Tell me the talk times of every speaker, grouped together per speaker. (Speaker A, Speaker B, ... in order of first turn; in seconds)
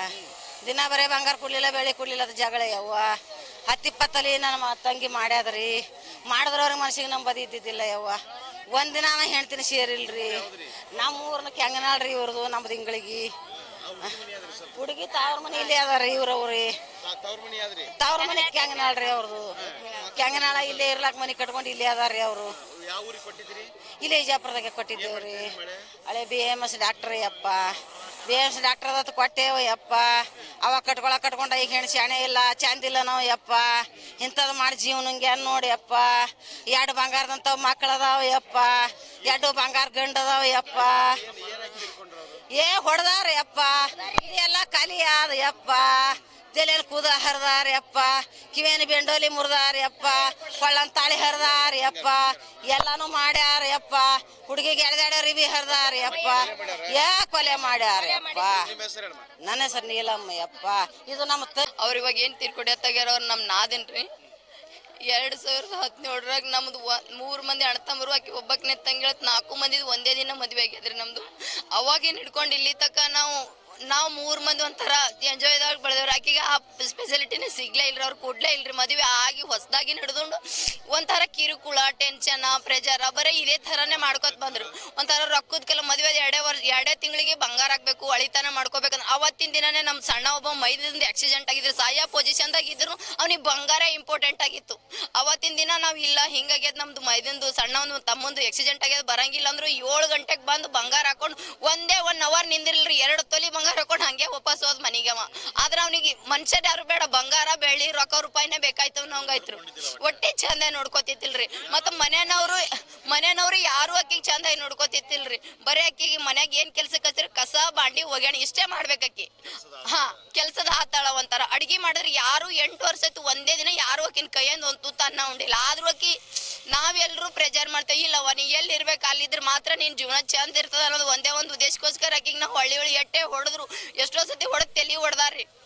Speaker A: 0.7-3.1, 3.7-5.8, 6.3-8.2, 8.7-13.3, 14.7-16.7, 18.0-22.6, 24.0-25.5, 26.1-30.1, 30.6-41.2, 42.5-58.7, 59.4-61.7
Speaker B: 10.1-10.9, 13.6-14.9, 17.0-17.9, 19.6-21.0, 22.5-23.7, 24.9-25.9, 40.7-42.5, 51.3-52.6, 56.1-57.0, 58.3-59.3, 83.8-84.7, 109.1-110.2, 111.7-112.0, 119.4-120.2
Speaker C: 61.8-64.1, 65.1-126.2, 126.7-135.5